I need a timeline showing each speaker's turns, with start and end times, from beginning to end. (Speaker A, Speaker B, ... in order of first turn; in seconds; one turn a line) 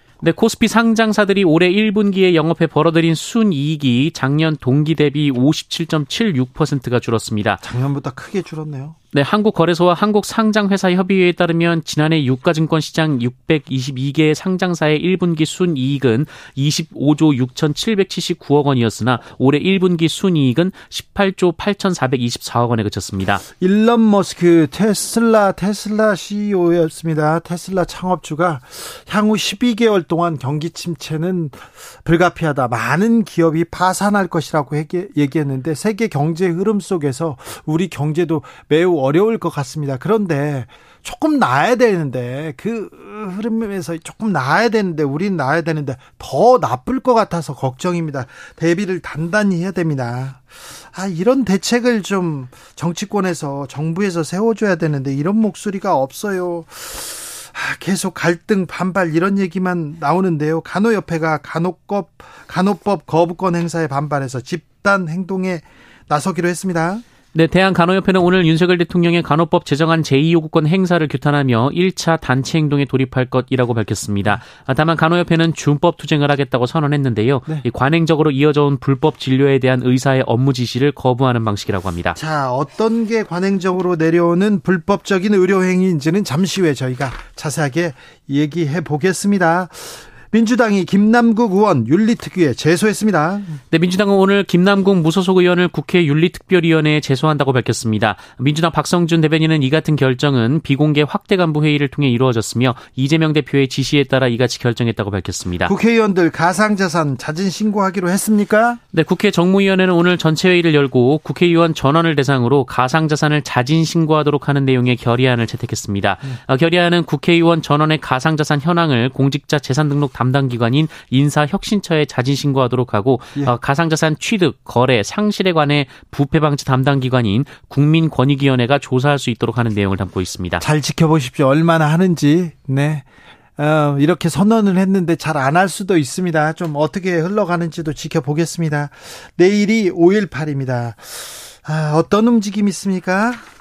Speaker A: 0.2-7.6
Speaker B: 7.6-8.9
Speaker A: 9.1-23.4
Speaker B: 23.6-67.0
Speaker A: 67.3-82.2
Speaker B: 82.2-93.6
Speaker A: 93.7-105.7
Speaker B: 105.7-108.8
Speaker A: 108.9-130.6
Speaker B: 130.6-133.0
Speaker B: 133.6-143.4